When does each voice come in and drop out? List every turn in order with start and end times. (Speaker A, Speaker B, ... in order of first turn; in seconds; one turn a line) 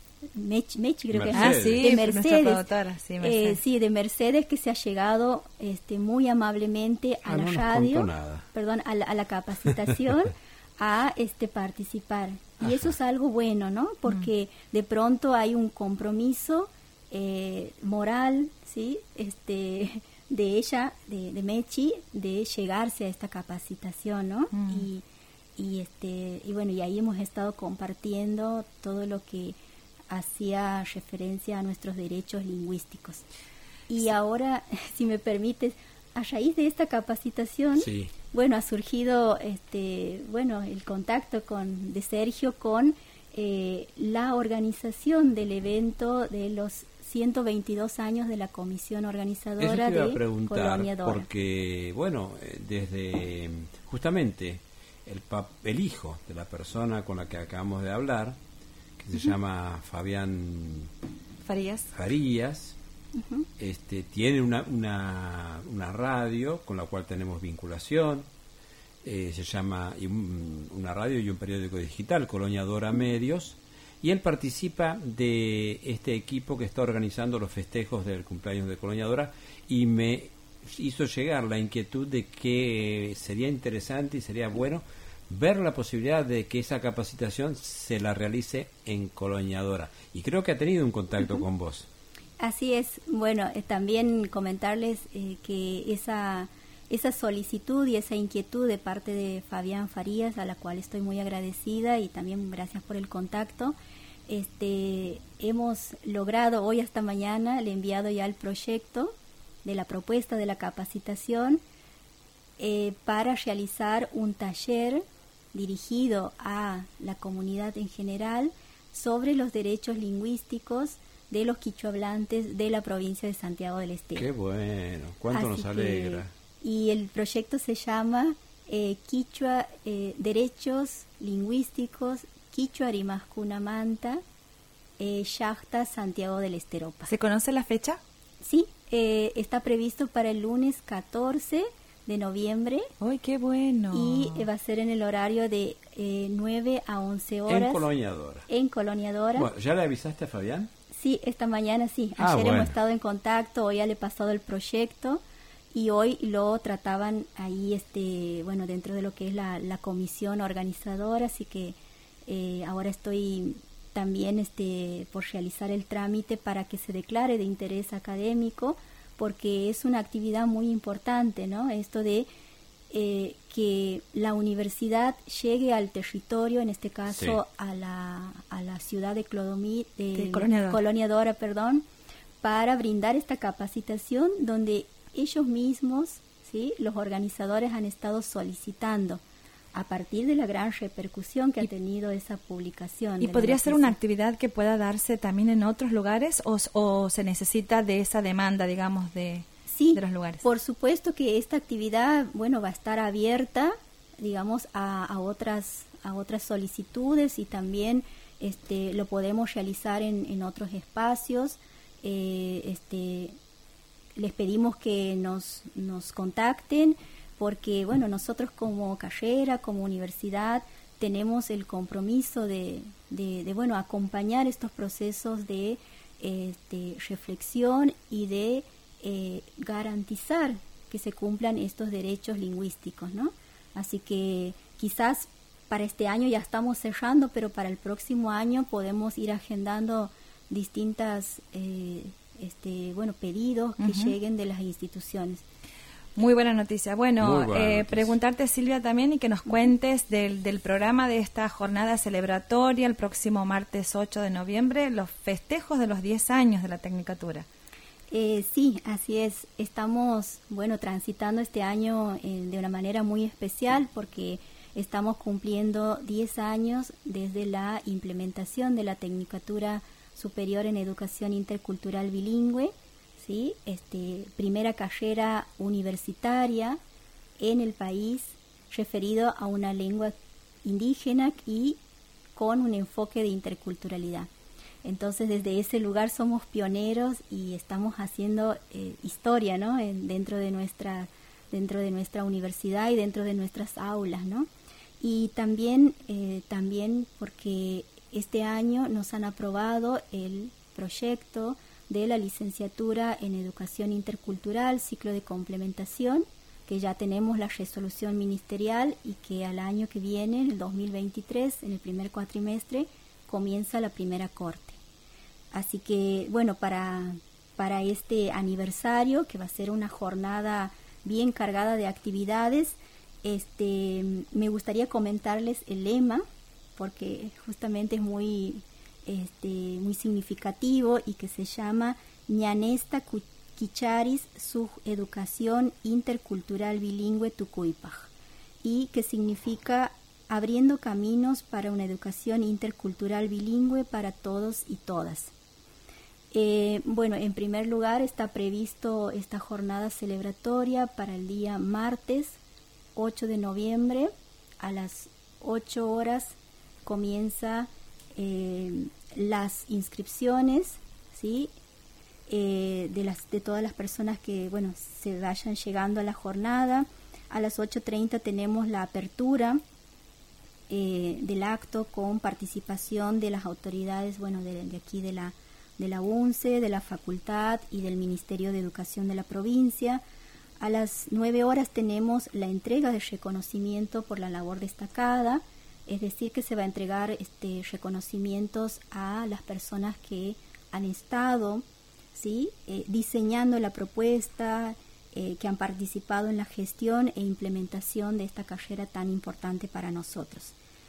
Speaker A: 0.3-25.0
Speaker B: 1.1-1.9
Speaker C: 1.3-3.6
Speaker B: 7.2-8.4
Speaker C: 24.5-24.9
Speaker A: 25.6-29.6
Speaker A: 30.1-33.2
Speaker A: 33.9-51.3
Speaker B: 37.8-38.1
Speaker B: 49.6-58.4
Speaker B: 59.0-60.9
Speaker C: 61.4-61.9
Speaker B: 61.9-62.8
Speaker A: 63.1-63.5
Speaker B: 63.6-68.3
Speaker B: 69.0-91.9
Speaker A: 92.4-103.8
Speaker A: 104.3-111.6
Speaker A: 112.6-124.3
Speaker B: 124.2-126.3
Speaker A: 125.3-134.2
Speaker A: 135.0-137.1
Speaker C: 137.1-138.0
Speaker A: 138.4-142.9
Speaker C: 143.0-144.5
Speaker A: 143.9-147.9
Speaker B: 147.5-148.5
Speaker A: 148.5-149.5
Speaker B: 149.3-150.7
Speaker A: 150.9-155.2
Speaker B: 152.2-152.7
Speaker A: 155.7-172.3
Speaker A: 172.9-181.8
Speaker B: 177.1-177.4
Speaker C: 180.2-180.8
Speaker A: 182.4-189.2
Speaker A: 189.7-194.0
Speaker C: 193.2-200.4
Speaker A: 199.7-213.4
Speaker A: 214.2-245.4
Speaker C: 243.8-244.1
Speaker C: 246.2-257.5
Speaker B: 247.2-248.1
Speaker A: 258.1-276.8
Speaker A: 277.4-281.8
Speaker A: 282.4-284.3
Speaker A: 284.8-294.5
Speaker A: 295.0-314.8
Speaker A: 315.5-326.2
Speaker A: 326.8-338.1
Speaker A: 338.6-345.3
Speaker A: 346.3-352.4
Speaker A: 352.9-361.5
Speaker A: 362.3-369.6
Speaker A: 370.7-380.0
Speaker A: 380.6-400.6